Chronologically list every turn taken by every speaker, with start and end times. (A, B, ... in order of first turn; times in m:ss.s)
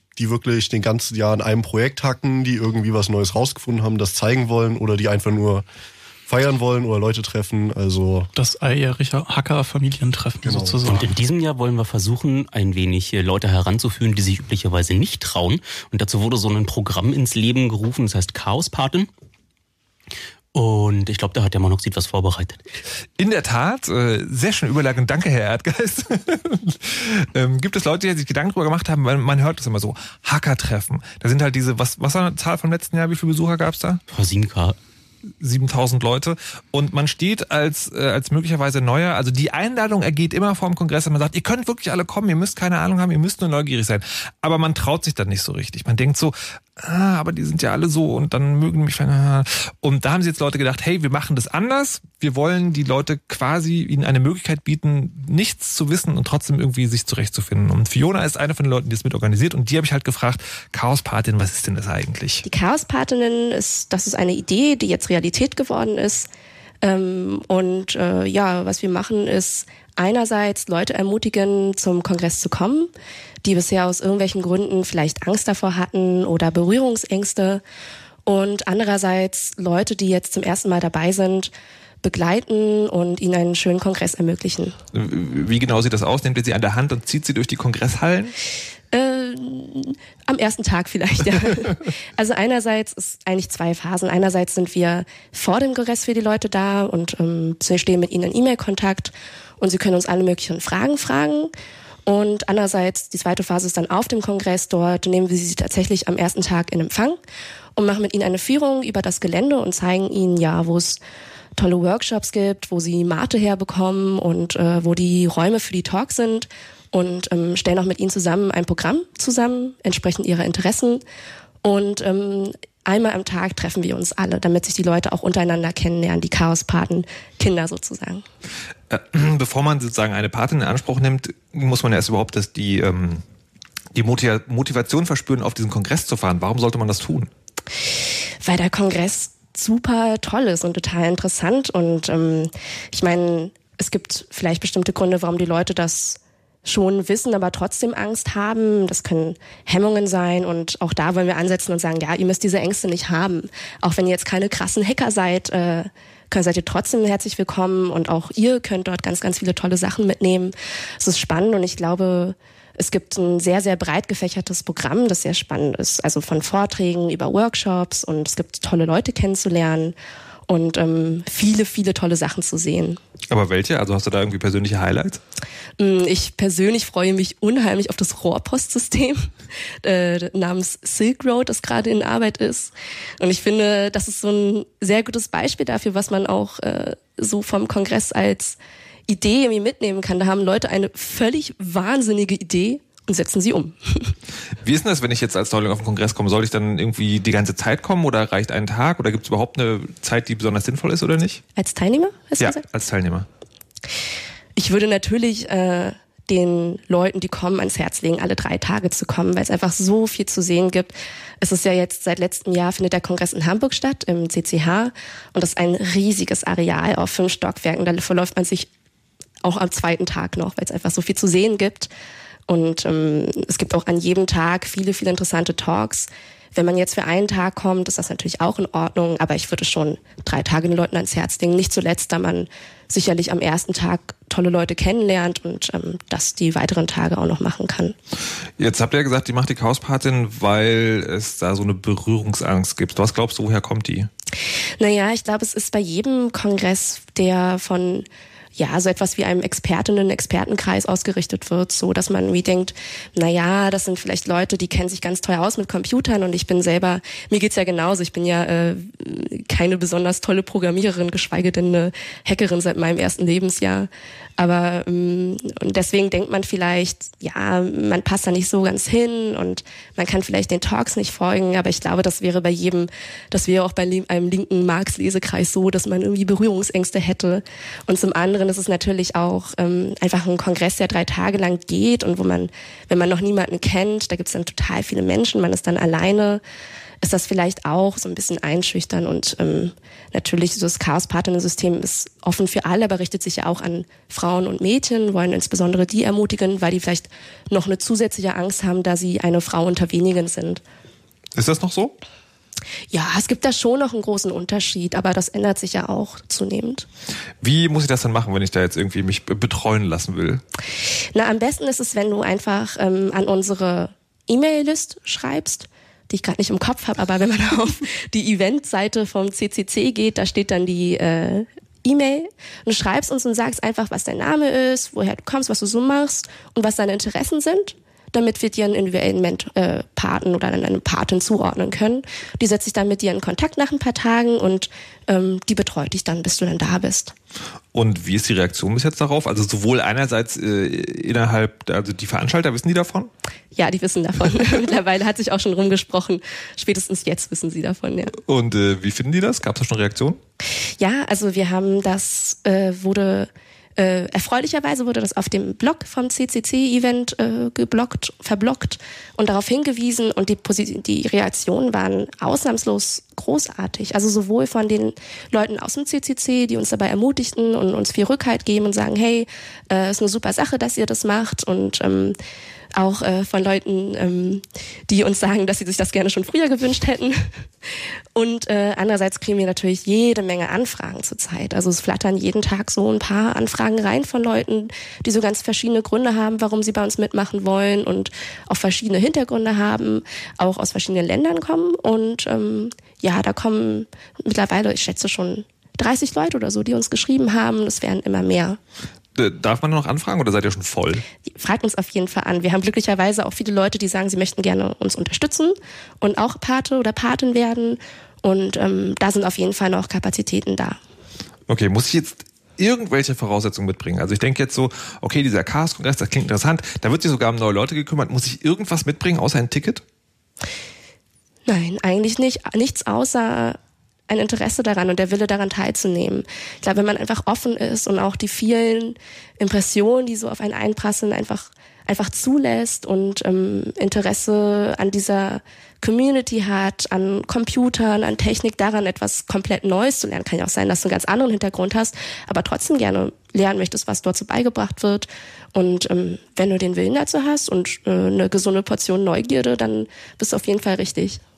0:00.2-0:05.6 A
0:06.3-0:08.3 A
0:08.4-0:11.1 B
0:10.4-0:10.8 A
0:10.8-0:19.1 C
0:20.5-0:22.6 C
0:23.2-0:34.0 D
0:34.1-0:34.8 C
0:35.4-1:02.4 D
1:02.4-1:06.3 E
1:06.8-1:12.9 E
1:13.4-1:17.6 E
1:18.2-1:21.5 E
1:22.0-1:24.8 E
1:24.9-1:28.3 D
1:28.9-1:41.5 E
1:42.1-1:47.2 E
1:47.8-1:51.0 E
1:51.6-2:01.0 E
2:01.6-2:08.2 E
2:08.9-2:13.2 D
2:13.9-2:17.3 D
2:18.4-2:50.0 E
2:50.5-2:53.0 E
2:53.3-2:55.2 D
2:55.8-2:59.3 E
2:59.8-3:08.6 E
3:09.1-3:14.1 E
3:14.6-3:21.4 D
3:21.6-3:22.6 E
3:22.4-3:23.3 D
3:24.6-3:38.7 E
3:39.4-3:41.9 E
3:42.5-3:57.9 E
3:58.6-4:04.1 D
4:04.8-4:08.0 E
4:08.6-4:46.4 E
4:47.0-5:00.6 E
5:01.3-5:02.0 D
5:02.9-5:06.8 E
5:07.4-5:10.4 D
5:11.1-5:37.1 E
5:37.7-5:43.1 D
5:43.5-5:48.1 E
5:48.2-5:50.2 D
5:50.8-6:12.2 E
6:12.7-6:17.3 E
6:18.2-6:38.6 E
6:39.1-6:41.0 D
6:41.3-6:50.8 E
6:51.5-6:59.8 D
7:01.5-7:03.6 E
7:04.1-7:31.2 E